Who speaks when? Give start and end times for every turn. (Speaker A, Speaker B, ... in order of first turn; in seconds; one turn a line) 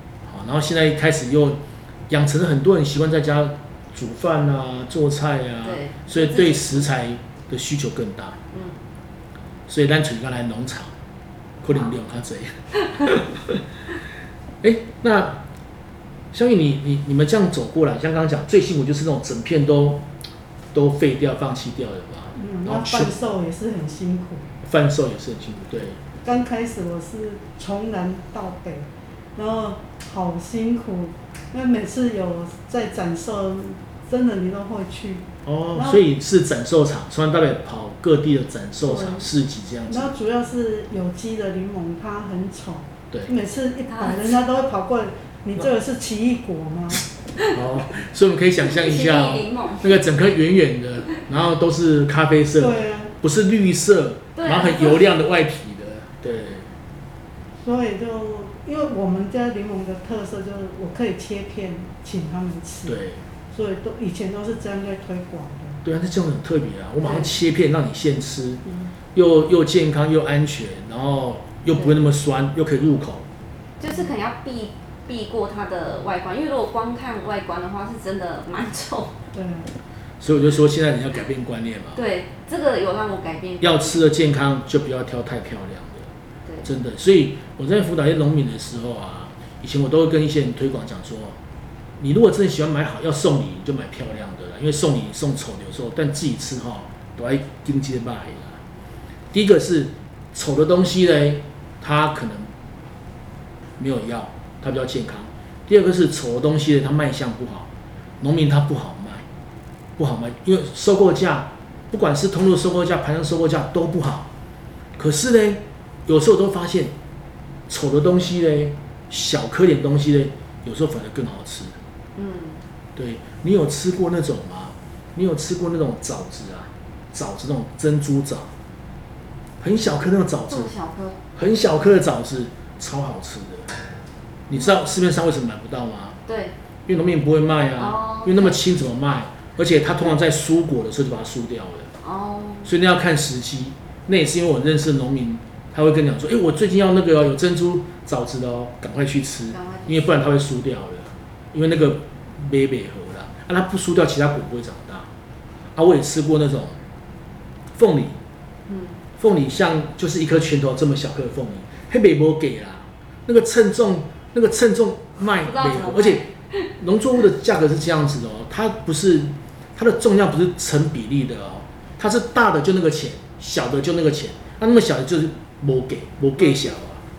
Speaker A: 0.2-8.4
Speaker B: 5.6-6.9
Speaker B: 8.5-8.8
Speaker A: 9.7-10.9
Speaker A: 11.6-13.7
Speaker A: 14.6-15.4
Speaker A: 16.3-20.1
Speaker A: 20.7-23.1
Speaker C: 22.3-24.4
Speaker A: 24.6-26.0
Speaker C: 26.2-36.0
Speaker A: 35.4-40.1
Speaker C: 38.8-39.3
Speaker C: 39.9-47.0
Speaker A: 47.4-56.7
Speaker B: 48.6-50.0
Speaker C: 52.6-53.1
Speaker B: 54.4-55.1
Speaker C: 57.6-63.0
Speaker A: 62.9-63.2
Speaker C: 63.5-65.8
Speaker A: 65.8-68.6
Speaker C: 68.7-68.9
Speaker A: 69.1-73.2
Speaker B: 73.8-79.2
Speaker C: 79.3-79.7
Speaker A: 80.2-82.0
Speaker B: 81.9-84.0
Speaker A: 83.6-86.1
Speaker A: 86.6-91.4
Speaker A: 92.0-98.6
Speaker A: 99.3-102.5
Speaker A: 103.8-107.7
Speaker A: 108.2-109.2
Speaker A: 110.0-114.3
Speaker A: 115.0-116.9
Speaker A: 117.7-121.8
Speaker B: 122.2-122.6
Speaker A: 123.0-128.5
Speaker A: 129.6-130.7
Speaker B: 130.5-131.2
Speaker A: 131.3-133.8
Speaker A: 134.5-136.2
Speaker B: 136.3-136.5
Speaker A: 136.9-141.9
Speaker B: 137.8-138.6
Speaker B: 142.0-142.7
Speaker A: 142.6-155.1
Speaker B: 149.5-150.2
Speaker A: 155.7-156.8
Speaker A: 157.7-158.2
Speaker B: 158.7-159.0
Speaker A: 159.2-166.2
Speaker B: 165.3-166.7
Speaker A: 166.8-177.0